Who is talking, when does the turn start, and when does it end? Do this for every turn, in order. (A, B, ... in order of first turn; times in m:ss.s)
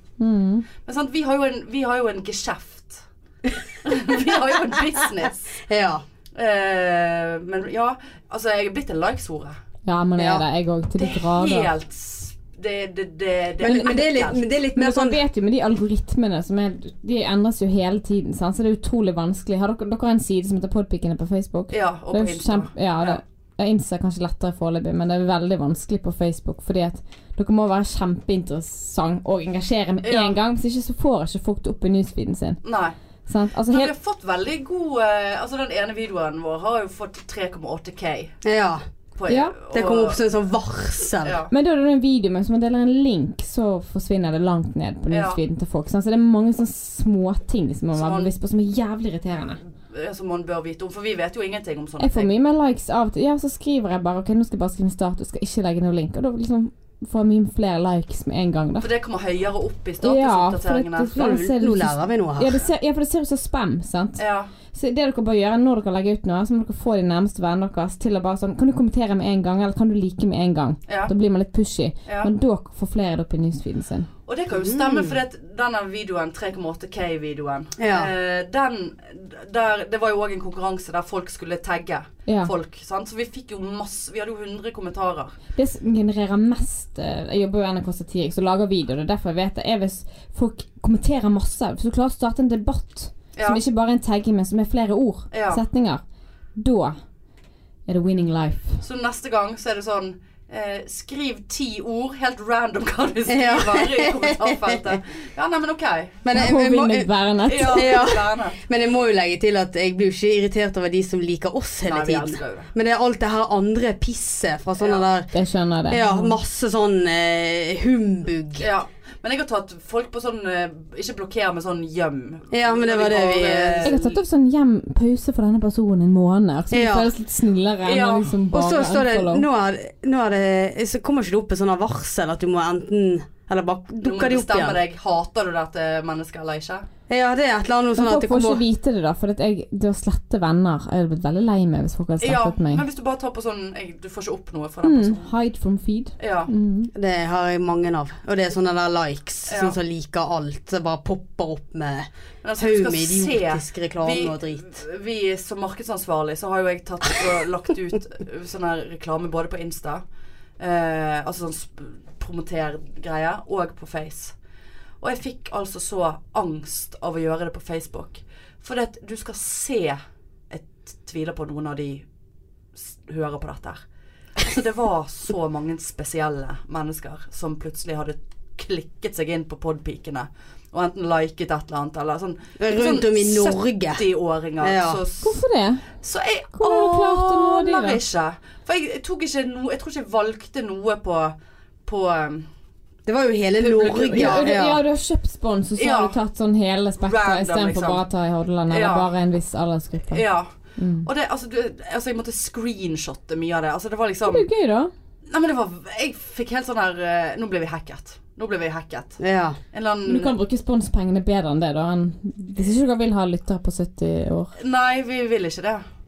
0:00.2-0:00.6 A
0:00.8-0:03.0 B
0:03.8-0:05.6 B
0:05.6-0:06.0 C
0:06.3-0:09.6 B
0:09.8-0:11.7 A
0:10.2-0:10.4 C
0:11.0-0:14.4 B
0:13.6-0:15.2 C
0:14.8-0:32.6 A
0:21.7-0:23.2 B
0:30.0-0:30.4 B
0:32.6-0:32.9 B
0:33.3-0:33.9 A
0:33.7-0:38.3 B
0:38.4-0:38.8 C
0:39.1-0:40.2 B
0:39.3-0:39.5 A
0:39.7-0:41.4 C
0:41.2-0:41.5 B
0:41.5-0:49.6 A
0:45.1-0:45.4 B
0:47.9-0:48.3 B
0:49.9-0:52.3 B
0:52.0-0:58.9 A
0:58.8-1:01.1 B
1:00.0-1:14.1 A
1:01.1-1:02.7 C
1:04.2-1:04.5 B
1:12.0-1:12.3 B
1:14.2-1:25.4 B
1:14.5-1:15.2 C
1:17.8-1:18.1 C
1:22.2-1:22.5 A
1:25.6-1:36.0 A
1:33.4-1:33.6 B
1:35.3-1:35.6 B
1:36.6-1:37.0 A
1:37.9-1:38.8 A
1:38.8-1:46.2 B
1:43.3-1:44.9 C
1:46.2-1:47.1 C
1:46.3-1:48.1 A
1:47.4-1:48.6 B
1:47.7-1:55.3 C
1:51.8-1:52.7 B
1:54.8-1:55.0 B
1:55.3-1:56.4 A
1:55.9-1:58.7 C
1:58.6-2:04.2 B
2:02.5-2:03.9 C
2:03.8-2:09.5 A
2:06.7-2:07.1 C
2:07.8-2:08.3 B
2:08.5-2:14.8 C
2:14.0-2:16.8 B
2:17.1-2:18.6 C
2:17.9-2:22.8 A
2:22.2-2:25.3 B
2:24.8-2:26.9 A
2:26.2-2:26.5 B
2:26.9-2:34.8 C
2:29.5-2:29.8 B
2:32.4-2:40.0 B
2:40.6-2:44.3 B
2:45.0-2:52.0 B
2:52.8-2:53.8 B
2:54.4-3:05.4 B
3:02.6-3:04.0 C
3:04.6-3:05.0 C
3:05.2-3:05.9 A
3:06.0-3:11.3 B
3:06.5-3:08.0 A
3:11.8-3:12.5 B
3:13.0-3:14.8 C
3:13.6-3:14.5 B
3:14.1-3:20.2 A
3:15.8-3:16.1 B
3:17.0-3:18.0 B
3:18.7-3:19.1 B
3:20.1-3:20.5 B
3:20.8-3:21.1 A
3:21.0-3:24.5 B
3:24.3-3:24.9 A
3:25.3-3:29.2 B
3:29.2-3:29.6 C
3:29.7-3:30.4 B
3:30.0-3:34.5 A
3:34.6-3:35.8 B